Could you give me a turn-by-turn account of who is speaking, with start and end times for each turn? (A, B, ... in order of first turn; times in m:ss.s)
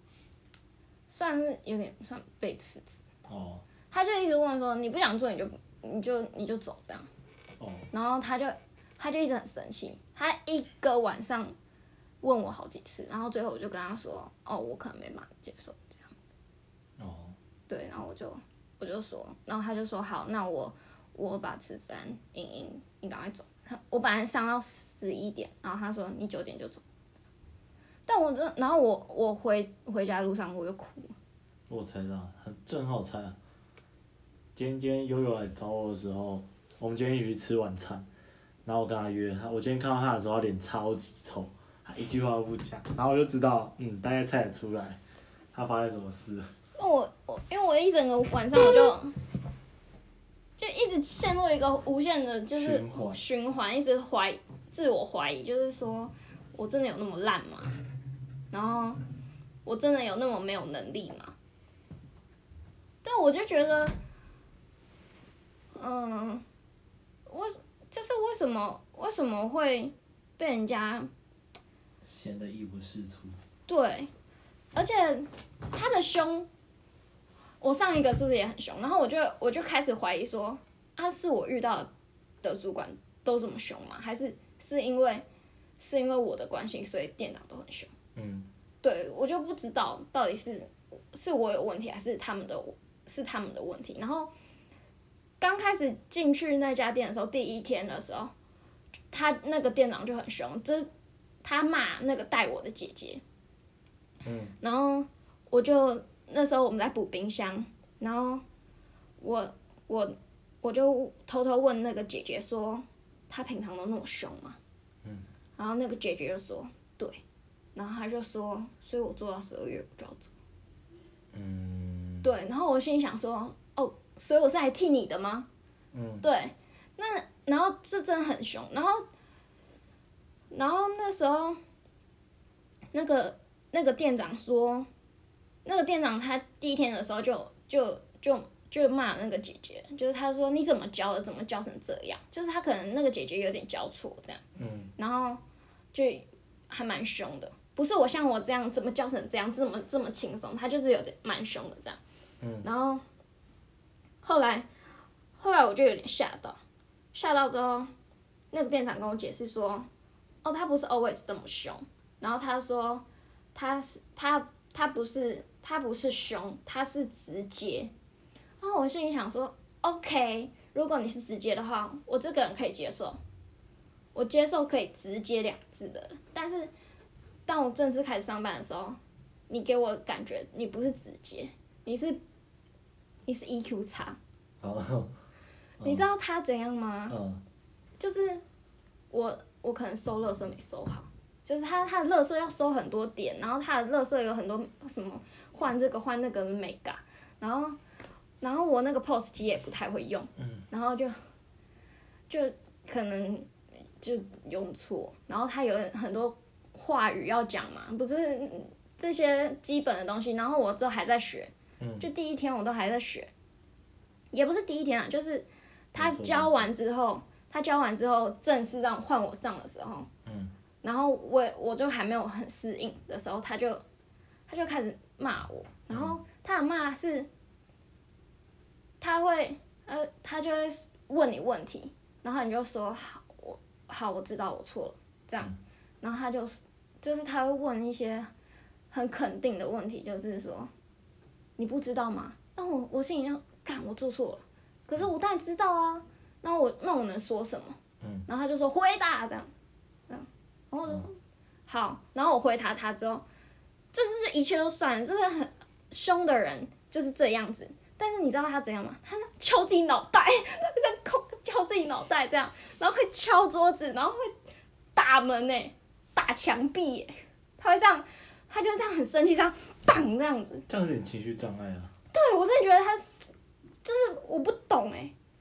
0:01.1-0:03.0 A
0:03.3-0:03.6 B
0:03.9-0:07.1 A
0:07.6-0:07.9 B
0:07.9-0:11.5 A
0:12.2-0:16.1 A
0:17.0-0:17.4 B
0:17.7-0:26.8 A
0:28.1-0:31.1 A
0:31.7-0:33.4 B
0:34.5-0:38.1 B
0:38.6-0:45.0 B
0:45.5-0:46.5 B
0:46.8-0:49.2 A
0:50.6-0:57.7 A
0:52.5-0:53.2 B
0:58.5-0:59.0 A
0:59.6-1:01.3 A
1:03.0-1:04.0 A
1:05.8-1:06.4 A
1:07.3-1:11.1 A
1:12.0-1:13.4 B
1:13.7-1:14.1 A
1:14.7-1:16.5 A
1:17.6-1:21.9 A
1:22.4-1:25.2 A
1:25.8-1:27.9 A
1:28.2-1:28.5 B
1:28.8-1:34.3 A
1:35.4-1:38.3 A
1:39.1-1:40.9 A
1:41.4-1:43.2 A
1:44.2-1:44.5 B
1:44.6-1:48.4 A
1:49.2-1:54.6 A
1:55.6-1:57.2 A
1:57.7-2:00.3 A
2:01.3-2:02.3 B
2:02.2-2:05.5 A
2:05.9-2:06.2 B
2:06.2-2:09.0 A
2:10.5-2:11.6 A
2:12.9-2:14.9 A
2:15.6-2:24.4 A
2:24.6-2:24.9 B
2:25.0-2:25.4 A
2:25.9-2:32.0 A
2:32.4-2:32.7 B
2:32.6-2:33.0 A
2:34.2-2:34.7 A
2:35.4-2:36.6 A
2:37.1-2:37.9 A
2:38.5-2:39.9 A
2:40.4-2:47.9 A
2:48.6-2:53.2 A
2:54.1-2:56.7 A
2:57.4-2:59.0 A
2:59.5-3:02.2 A
3:03.2-3:04.2 A
3:04.6-3:05.1 B
3:05.8-3:06.0 B
3:05.8-3:07.2 A
3:07.1-3:07.4 B
3:08.0-3:08.4 A
3:09.1-3:17.8 A
3:18.4-3:21.2 A
3:20.4-3:20.6 B
3:22.3-3:23.5 A
3:24.0-3:33.3 A
3:31.8-3:32.1 B
3:34.3-3:40.1 A
3:36.0-3:36.7 B
3:40.2-3:40.5 B
3:40.8-3:43.8 A
3:44.5-3:47.3 A
3:49.0-3:58.3 A
3:58.9-4:00.7 A
4:01.6-4:09.5 A
4:08.0-4:08.2 B
4:10.1-4:11.2 A
4:11.7-4:13.2 A
4:13.9-4:24.3 A
4:25.0-4:30.6 A
4:30.7-4:31.9 B
4:32.1-4:33.2 A
4:33.8-4:35.1 A